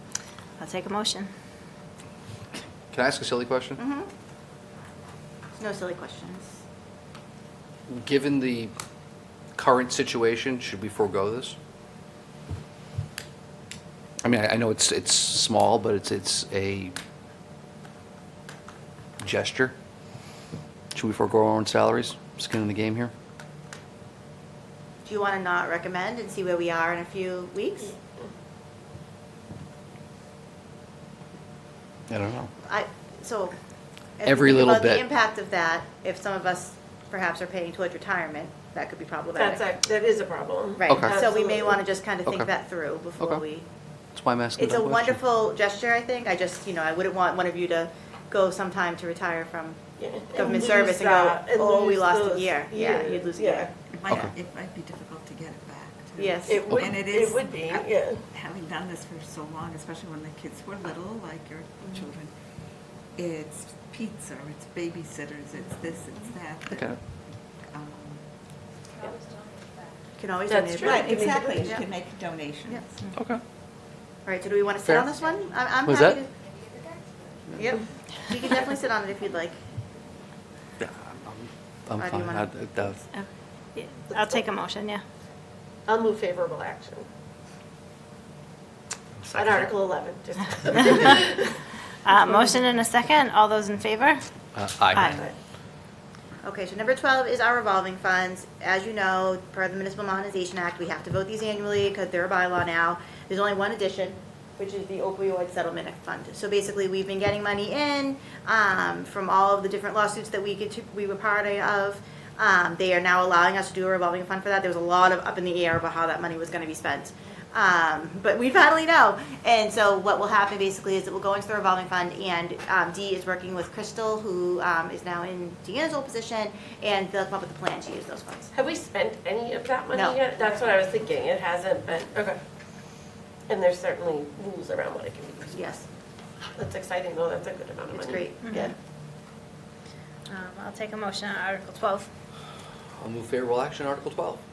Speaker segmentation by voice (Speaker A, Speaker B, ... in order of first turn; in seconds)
Speaker A: 0.6-1.3, 83.1-85.0, 92.0-94.2, 94.9-95.2, 138.4-138.7, 140.3-142.1
Speaker B: 2.9-3.8, 7.9-8.7, 9.6-11.6, 14.2-16.9, 19.2-19.8, 20.9-23.1, 32.1-32.5, 34.2-35.1, 40.9-41.2, 44.1-45.2, 54.1-54.3, 66.7-67.0, 73.2-73.4, 74.8-75.1, 75.8-76.2, 80.8-83.0, 89.2-89.7, 94.5-95.2, 143.0-144.4
Speaker C: 3.8-4.1, 5.5-6.6, 25.1-28.0, 32.6-33.6, 34.2-39.6, 40.8-43.7, 44.6-49.8, 50.3-53.7, 56.2-56.6, 70.2-71.9, 74.2-76.3, 77.6-79.6, 82.0-82.5, 96.4-128.5, 129.9-130.5, 135.5-135.8, 137.9-138.7
Speaker D: 39.4-41.8, 50.0-53.7, 56.5-58.2, 70.5-71.7, 84.1-84.5, 85.9-87.1, 89.3-91.7, 95.0-95.3, 128.5-132.4, 133.5-135.8, 136.6-138.7
Speaker E: 53.9-62.3, 63.1-66.9, 67.7-68.2, 70.8-73.0